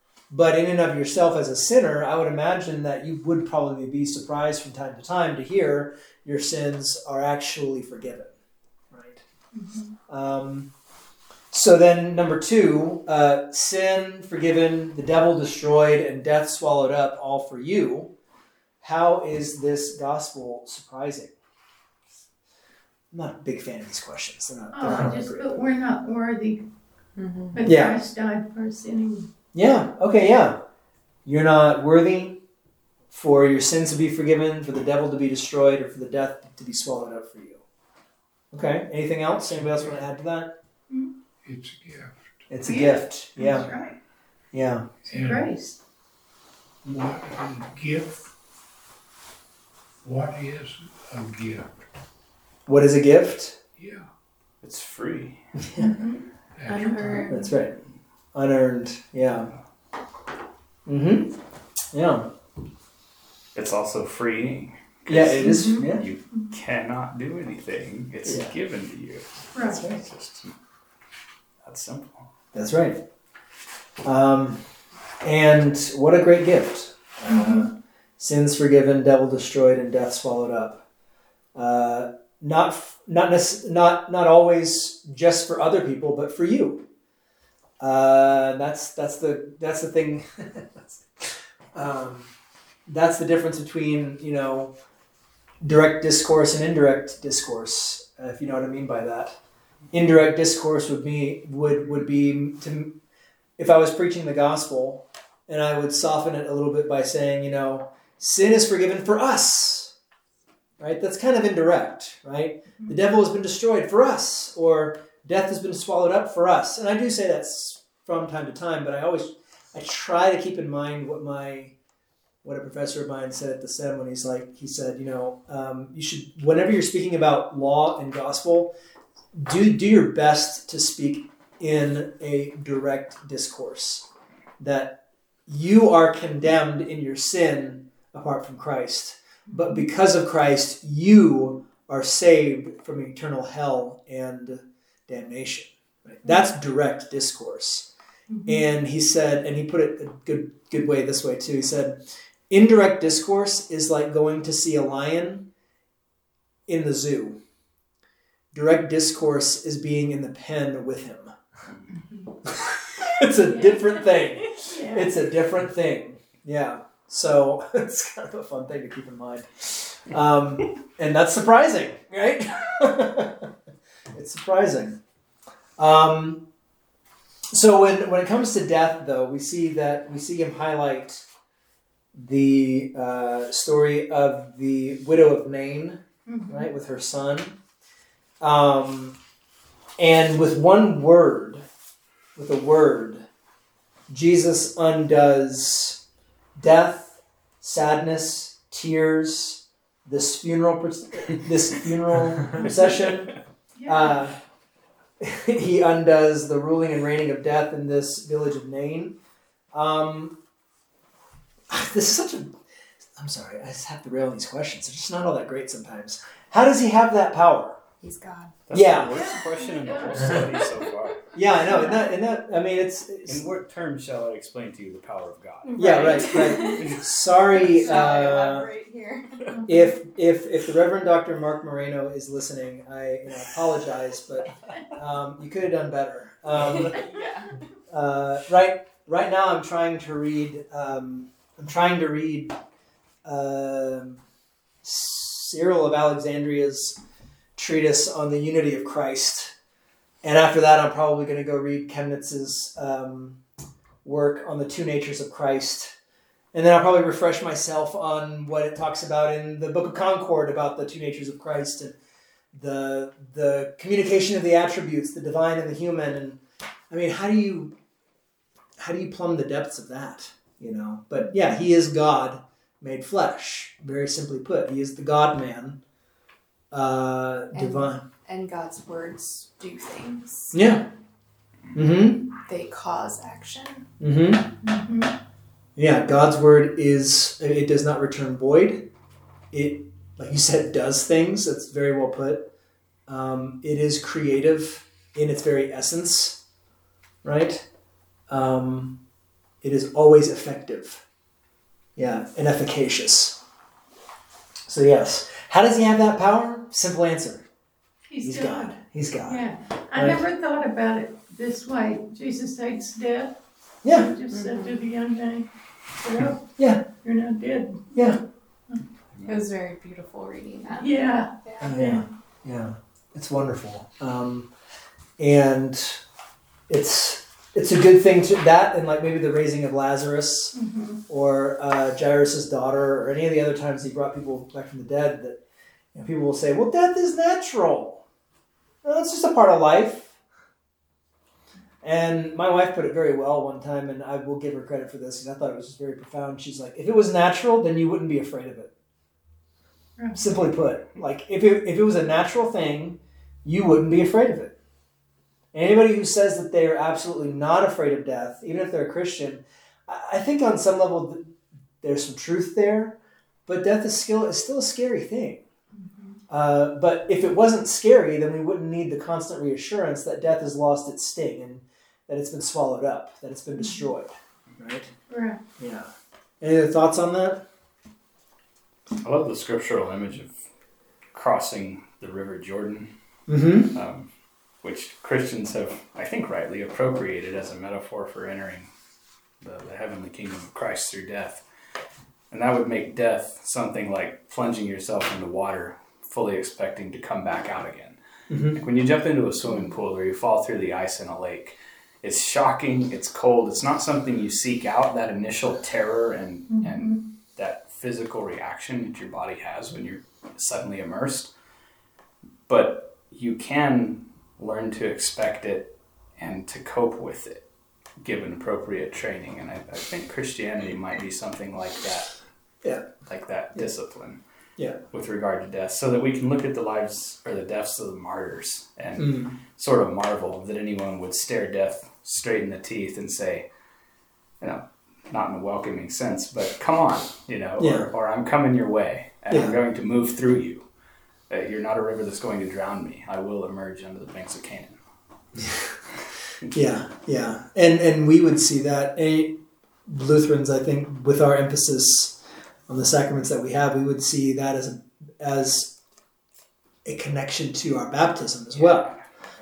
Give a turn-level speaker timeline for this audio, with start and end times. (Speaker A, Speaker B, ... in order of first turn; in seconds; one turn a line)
Speaker A: 0.3-8.3
Speaker A: 8.9-9.2
Speaker B: 9.5-9.9
Speaker A: 10.1-10.7
Speaker A: 11.5-18.1
Speaker A: 18.8-21.4
Speaker A: 23.1-25.5
Speaker B: 24.7-26.6
Speaker C: 27.2-27.6
Speaker B: 27.5-29.3
Speaker A: 27.6-28.0
Speaker A: 29.5-30.6
Speaker A: 31.3-32.4
Speaker A: 33.1-37.6
Speaker A: 38.5-40.5
Speaker D: 41.4-42.5
Speaker A: 42.5-43.7
Speaker B: 42.6-44.0
Speaker A: 44.5-44.9
Speaker D: 45.1-45.5
Speaker B: 45.1-45.8
Speaker D: 46.9-48.3
Speaker D: 50.0-51.9
Speaker A: 52.7-53.6
Speaker D: 53.8-54.1
Speaker E: 54.6-55.5
Speaker A: 55.6-56.0
Speaker B: 55.8-56.2
Speaker D: 56.6-57.3
Speaker C: 56.6-57.5
Speaker A: 57.3-57.8
Speaker A: 58.3-59.5
Speaker A: 60.9-61.3
Speaker A: 61.9-62.3
Speaker E: 63.5-70.5
Speaker A: 65.1-66.0
Speaker C: 65.5-65.8
Speaker B: 65.6-66.5
Speaker A: 68.2-68.5
Speaker B: 69.5-69.9
Speaker A: 69.6-70.0
Speaker E: 71.6-72.3
Speaker A: 72.5-73.0
Speaker A: 74.0-74.6
Speaker A: 75.2-80.8
Speaker B: 77.3-77.7
Speaker A: 81.5-86.8
Speaker A: 87.8-92.3
Speaker A: 92.9-94.7
Speaker A: 95.6-99.4
Speaker A: 99.9-103.0
Speaker A: 103.6-109.9
Speaker A: 110.8-121.7
Speaker A: 122.4-128.7
Speaker A: 129.3-134.1
Speaker A: 134.6-147.9
Speaker B: 139.5-139.8
Speaker B: 148.3-148.7
Speaker A: 148.5-155.5
Speaker A: 156.7-157.4
Speaker A: 158.5-161.3
Speaker A: 162.4-173.5
Speaker B: 163.5-165.2
Speaker A: 174.1-175.0
Speaker A: 175.8-176.4
Speaker A: 177.5-181.2
Speaker A: 182.1-187.6
Speaker B: 186.3-186.7
Speaker A: 188.4-189.2
Speaker A: 190.0-191.7
Speaker A: 192.4-193.3
Speaker A: 194.1-196.0
Speaker A: 196.6-204.4
Speaker B: 203.8-204.2
Speaker A: 205.2-209.2
Speaker A: 209.7-210.4
Speaker A: 211.7-212.6
Speaker A: 213.2-217.8
Speaker C: 218.0-218.6
Speaker E: 218.7-221.3
Speaker A: 218.7-219.3
Speaker B: 219.6-220.5
Speaker A: 221.3-223.5
Speaker B: 221.7-222.1
Speaker E: 223.3-227.0
Speaker C: 225.6-226.9
Speaker A: 225.8-228.7
Speaker C: 227.5-229.5
Speaker B: 229.5-229.9
Speaker A: 229.7-237.1
Speaker C: 236.6-237.5
Speaker A: 237.9-242.6
Speaker A: 243.2-244.2
Speaker A: 244.8-247.0
Speaker A: 247.6-249.5
Speaker A: 250.2-253.4
Speaker A: 254.0-255.9
Speaker A: 256.5-262.0
Speaker A: 262.5-267.7
Speaker A: 268.8-275.8
Speaker A: 276.7-278.0
Speaker C: 277.5-280.6
Speaker A: 280.5-280.9
Speaker A: 281.7-282.3
Speaker C: 282.4-283.9
Speaker A: 284.0-284.5
Speaker B: 284.6-285.1
Speaker A: 285.8-288.9
Speaker A: 289.5-292.5
Speaker A: 293.1-296.4
Speaker A: 297.2-297.7
Speaker A: 298.3-299.0
Speaker A: 299.6-301.0
Speaker A: 302.0-303.4
Speaker A: 304.7-307.4
Speaker B: 308.1-318.1
Speaker A: 308.2-310.2
Speaker A: 313.8-314.1
Speaker C: 314.3-314.8
Speaker A: 316.6-316.9
Speaker A: 317.9-318.2
Speaker C: 319.2-322.0
Speaker B: 320.8-322.1
Speaker A: 321.6-324.5
Speaker A: 325.2-326.0
Speaker A: 326.7-330.6
Speaker B: 330.5-331.0
Speaker A: 331.1-335.4
Speaker A: 335.9-338.0
Speaker A: 338.8-340.2
Speaker A: 341.8-348.7
Speaker B: 350.0-350.3
Speaker A: 350.1-354.6
Speaker A: 355.5-365.4
Speaker B: 365.8-366.2
Speaker A: 366.3-374.9
Speaker B: 373.6-373.9
Speaker B: 375.1-375.4
Speaker A: 375.6-377.4
Speaker E: 379.0-380.4
Speaker E: 381.1-382.9
Speaker A: 383.3-383.8
Speaker E: 383.7-384.1
Speaker E: 384.6-388.7
Speaker E: 389.4-391.4
Speaker E: 392.3-398.0
Speaker A: 398.3-398.6
Speaker E: 398.5-411.3
Speaker B: 406.5-407.0
Speaker E: 412.5-417.4
Speaker E: 418.0-422.2
Speaker E: 423.1-424.2
Speaker E: 424.9-433.5
Speaker A: 429.0-429.4
Speaker E: 434.4-440.7
Speaker A: 437.6-437.9
Speaker A: 439.3-439.6
Speaker E: 441.3-444.8
Speaker A: 445.4-445.8
Speaker A: 446.5-455.8
Speaker A: 456.9-458.9
Speaker E: 458.6-459.0